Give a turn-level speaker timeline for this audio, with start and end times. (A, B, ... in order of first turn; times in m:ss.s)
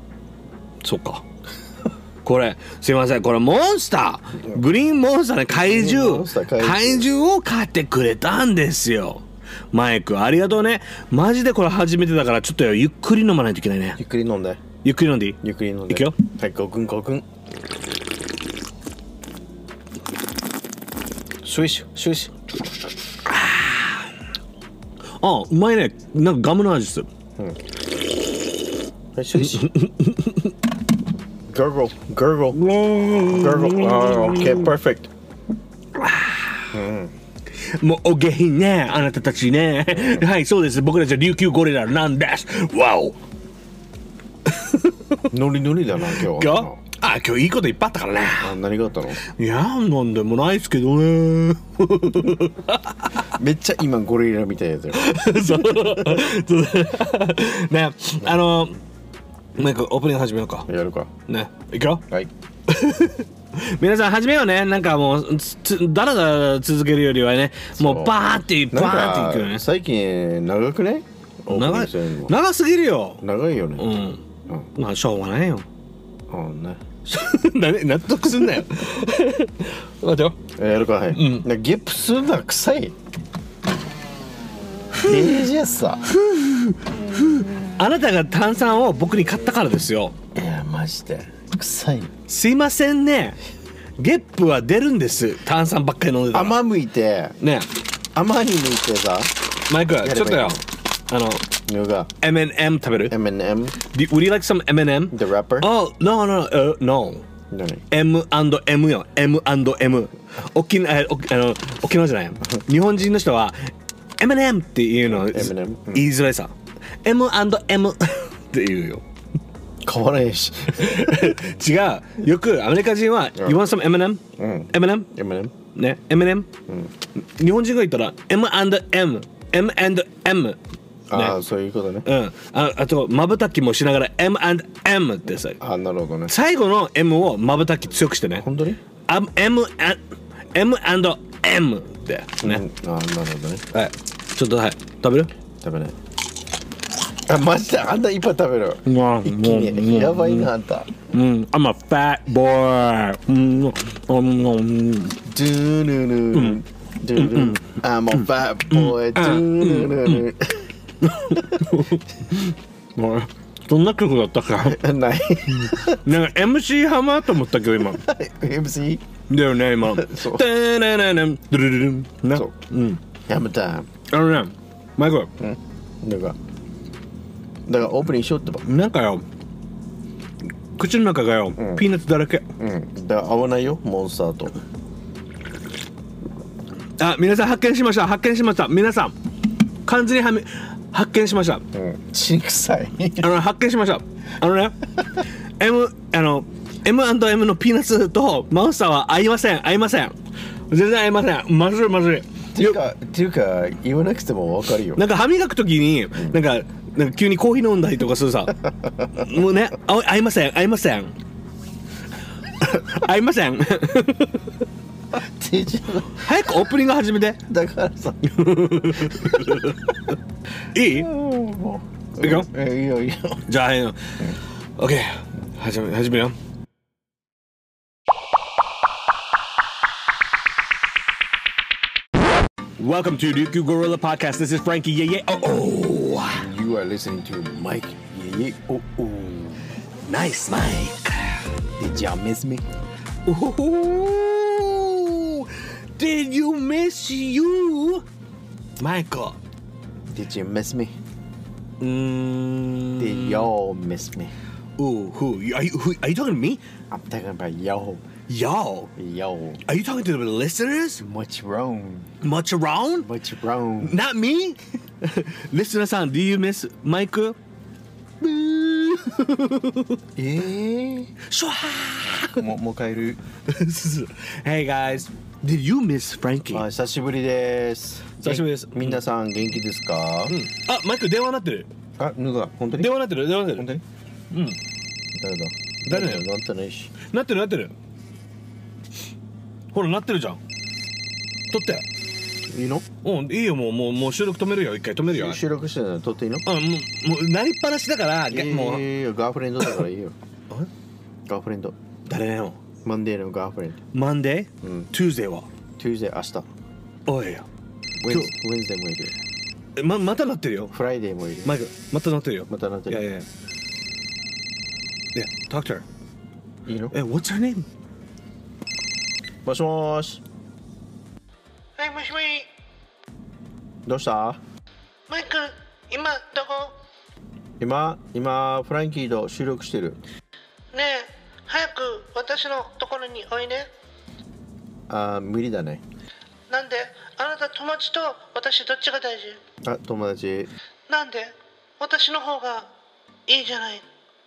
0:00.8-0:01.3 A
0:02.2-0:14.0 A
0:05.5-0:07.1 B
0:14.0-0:14.6 B
0:14.8-0:16.2 A
0:15.4-0:17.3 B
0:21.4-0:22.4 B
0:23.3-0:24.1 A
0:25.2-0:27.1 A
0:29.2-0:29.7 B
0:29.5-0:30.5 A
0:31.5-0:32.6 B
0:32.6-0:34.7 A
0:33.2-0:35.1 B
0:36.0-0:36.8 A
0:36.7-0:37.1 B
0:37.5-0:43.2 A
0:40.0-0:40.2 B
0:44.5-0:45.3 A
0:45.3-0:46.8 B
0:46.2-0:48.6 A
0:48.4-0:49.2 B
0:49.2-0:53.3 A
0:53.3-0:55.2 B
0:54.9-0:58.8 A
0:55.7-0:56.2 B
0:59.6-1:00.7 A
1:00.7-1:01.1 B
1:01.3-1:02.0 A
1:02.7-1:09.6 A
1:07.8-1:12.4 B
1:11.5-1:13.2 A
1:13.2-1:13.9 B
1:13.8-1:14.2 A
1:14.8-1:15.7 A
1:16.3-1:16.8 B
1:17.1-1:20.5 A
1:20.6-1:23.0 B
1:21.1-1:21.5 A
1:24.9-1:26.1 B
1:25.0-1:25.3 A
1:26.1-1:30.2 A
1:30.4-1:32.1 B
1:32.3-1:33.4 A
1:34.0-1:36.6 A
1:36.3-1:37.4 B
1:37.4-1:37.7 A
1:38.2-1:39.3 B
1:39.7-1:41.4 A
1:40.0-1:40.6 B
1:41.7-1:42.1 B
1:42.2-1:43.2 A
1:43.1-1:43.8 B
1:43.8-1:47.3 A
1:45.1-1:45.7 B
1:47.5-1:47.8 B
1:47.9-1:59.0 A
1:55.1-1:56.1 B
1:59.8-2:01.4 B
2:00.8-2:05.1 A
2:03.4-2:03.6 B
2:04.3-2:05.5 B
2:05.7-2:06.5 A
2:07.2-2:10.6 A
2:11.1-2:12.1 B
2:11.1-2:11.4 A
2:12.0-2:15.6 A
2:15.6-2:16.3 B
2:16.3-2:18.5 A
2:18.4-2:18.8 B
2:19.1-2:20.0 A
2:20.5-2:22.6 A
2:22.4-2:23.6 B
2:23.7-2:25.3 A
2:25.6-2:26.0 B
2:27.3-2:31.0 B
2:28.9-2:30.5 A
2:31.1-2:35.2 A
2:35.3-2:40.7 B
2:36.3-2:36.6 A
2:37.2-2:40.2 A
2:41.0-2:44.8 A
2:41.3-2:41.7 B
2:44.6-2:46.0 B
2:45.5-2:48.0 A
2:47.9-2:49.0 B
2:49.3-2:53.0 A
2:49.8-2:50.5 B
2:53.2-2:53.9 B
2:54.1-2:55.3 A
2:55.4-2:56.4 B
2:57.7-2:58.7 B
2:58.6-2:59.2 A
3:00.8-3:02.5 A
3:01.6-3:01.8 B
3:02.6-3:04.6 B
3:07.0-3:09.2 A
3:09.8-3:11.6 A
3:11.7-3:13.3 B
3:13.2-3:20.2 A
3:20.7-3:22.8 A
3:22.6-3:25.0 B
3:25.0-3:31.2 A
3:28.9-3:29.3 B
3:32.6-3:34.6 A
3:35.1-3:36.3 B
3:36.2-3:37.4 A
3:37.5-3:39.7 B
3:38.2-3:40.1 A
3:40.7-3:41.1 A
3:40.8-3:43.4 B
3:42.2-3:42.5 A
3:43.5-3:46.4 A
3:52.8-3:56.5 A
3:56.3-3:59.8 B
4:00.1-4:01.5 A
4:01.8-4:02.6 B
4:03.3-4:08.1 A
4:08.8-4:09.4 A
4:10.1-4:11.0 B
4:11.8-4:13.5 A
4:13.0-4:14.3 B
4:14.8-4:16.6 A
4:16.9-4:18.1 B
4:18.3-4:18.9 A
4:19.0-4:19.6 B
4:19.6-4:21.0 A
4:21.0-4:22.1 B
4:22.2-4:23.1 A
4:23.0-4:24.0 B
4:23.8-4:27.4 A
4:28.2-4:30.0 A
4:30.2-4:31.1 B
4:31.3-4:32.4 A
4:32.4-4:33.2 B
4:33.5-4:36.7 A
4:36.5-4:40.4 B
4:38.2-4:39.0 A
4:40.3-4:41.7 A
4:42.0-4:43.8 B
4:42.6-4:43.7 A
4:44.3-4:44.6 A
4:45.1-4:46.9 B
4:45.9-4:46.2 A
4:47.0-4:47.7 A
4:49.7-4:50.4 A
4:51.5-4:51.8 A
4:52.5-4:52.9 B
4:53.0-4:55.4 A
4:55.1-4:56.4 B
4:56.5-4:58.8 A
4:58.3-5:00.2 B
5:01.3-5:01.8 B
5:02.1-5:02.6 A
5:02.8-5:03.8 B
5:03.9-5:05.5 A
5:04.6-5:04.9 B
5:05.8-5:06.5 B
5:07.1-5:07.5 A
5:08.0-5:09.2 B
5:09.8-5:10.7 A
5:10.7-5:11.6 B
5:11.4-5:13.3 A
5:12.5-5:13.0 B
5:15.2-5:15.8 A
5:16.7-5:17.0 B
5:16.9-5:17.7 A
5:19.4-5:20.2 B
5:21.8-5:22.5 C
5:23.9-5:24.4 B
5:25.1-5:26.8 C
5:27.6-5:30.0 B
5:30.7-5:33.7 C
5:34.9-5:35.8 B
5:36.5-5:39.4 C
5:39.6-5:40.5 B
5:40.9-5:42.7 C
5:43.3-5:43.8 C